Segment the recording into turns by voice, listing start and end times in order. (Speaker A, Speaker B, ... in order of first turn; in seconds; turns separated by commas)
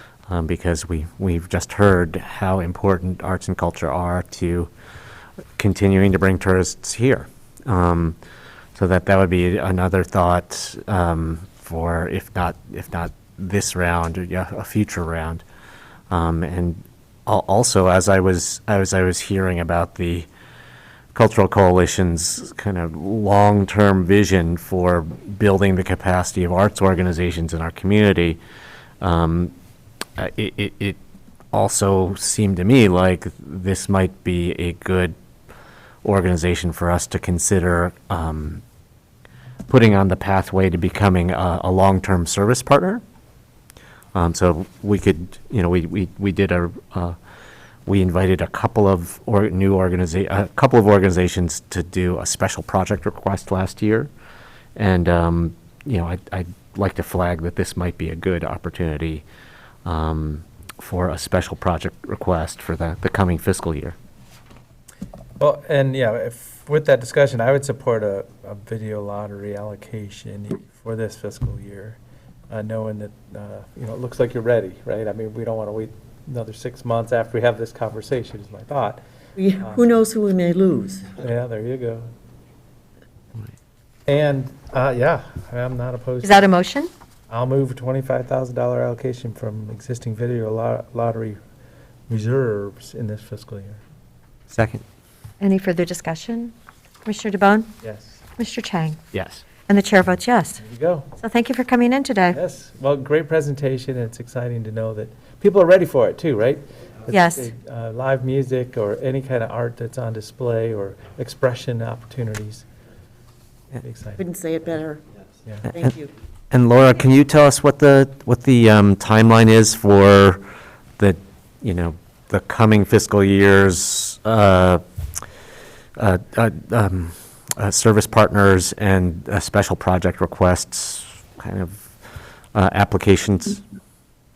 Speaker A: 0.3-4.7, Speaker A: 5.6-8.2, Speaker A: 8.8-15.4, Speaker A: 16.1-20.3, Speaker A: 21.1-28.4, Speaker A: 29.0-29.5, Speaker A: 30.2-31.0, Speaker A: 31.5-35.1, Speaker A: 36.0-38.6, Speaker A: 39.7-43.0, Speaker A: 44.1-47.2, Speaker A: 47.9-54.1, Speaker A: 54.8-59.2, Speaker A: 59.9-64.0, Speaker B: 65.4-72.0, Speaker B: 72.5-79.0, Speaker C: 79.4-81.2, Speaker B: 81.2-82.1, Speaker B: 84.1-86.5, Speaker D: 86.2-86.9, Speaker B: 87.3-91.4, Speaker B: 92.1-93.8, Speaker A: 94.5-94.8, Speaker D: 95.4-96.5, Speaker D: 97.0-97.7, Speaker B: 97.8-98.2, Speaker D: 98.4-99.0, Speaker A: 99.1-99.4, Speaker D: 99.7-100.6, Speaker B: 100.6-101.1, Speaker D: 101.2-102.4, Speaker B: 102.3-112.7, Speaker D: 107.1-107.5, Speaker B: 113.8-114.2, Speaker C: 114.2-115.0, Speaker C: 115.7-116.1, Speaker A: 116.5-120.4, Speaker A: 121.0-124.8, Speaker A: 126.0-131.9, Speaker A: 132.5-133.6